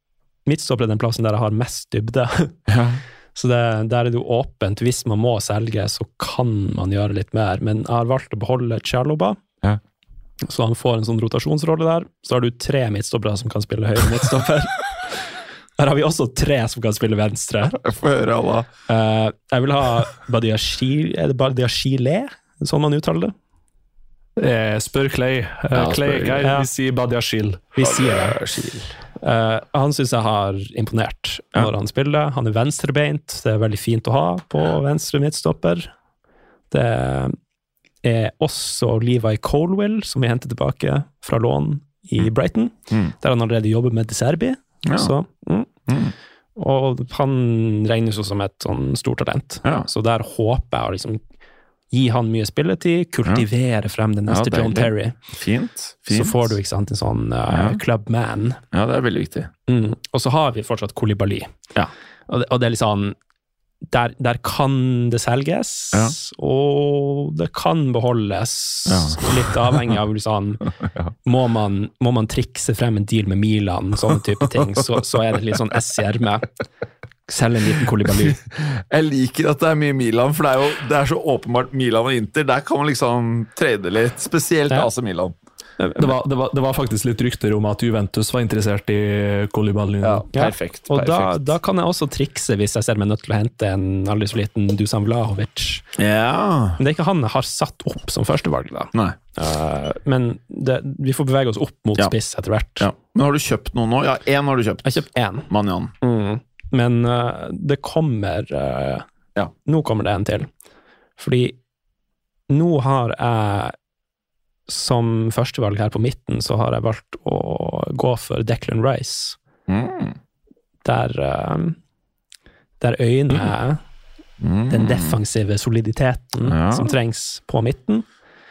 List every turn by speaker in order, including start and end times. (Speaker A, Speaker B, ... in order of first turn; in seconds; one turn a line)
Speaker A: 0.5-2.6
Speaker B: 2.7-3.0
Speaker A: 3.3-9.4
Speaker A: 10.4-17.8
Speaker B: 17.8-18.7
Speaker A: 18.9-23.3
Speaker C: 24.4-27.7
Speaker B: 25.7-26.5
Speaker A: 27.8-28.4
Speaker B: 27.8-28.9
Speaker A: 29.2-35.9
Speaker A: 36.7-37.4
Speaker A: 38.0-45.7
Speaker B: 44.9-45.1
Speaker B: 45.9-46.1
Speaker A: 46.5-51.2
Speaker A: 51.9-55.2
Speaker B: 54.3-56.5
Speaker A: 56.1-58.6
Speaker B: 57.5-57.8
Speaker B: 58.7-59.5
Speaker A: 59.7-61.5
Speaker A: 62.3-63.1
Speaker A: 63.9-70.7
Speaker B: 68.9-69.9
Speaker A: 71.2-76.5
Speaker A: 77.3-78.4
Speaker B: 78.5-85.3
Speaker A: 85.8-86.1
Speaker C: 86.0-90.2
Speaker B: 90.0-91.5
Speaker A: 90.3-95.8
Speaker B: 96.0-96.8
Speaker A: 96.8-102.9
Speaker B: 102.8-105.9
Speaker A: 104.8-105.5
Speaker A: 106.0-109.1
Speaker A: 109.6-110.5
Speaker A: 111.2-111.6
Speaker A: 112.5-113.8
Speaker A: 114.7-119.4
Speaker B: 119.7-120.2
Speaker A: 120.8-121.8
Speaker A: 122.8-123.8
Speaker B: 124.4-125.2
Speaker A: 124.7-128.1
Speaker B: 126.4-126.9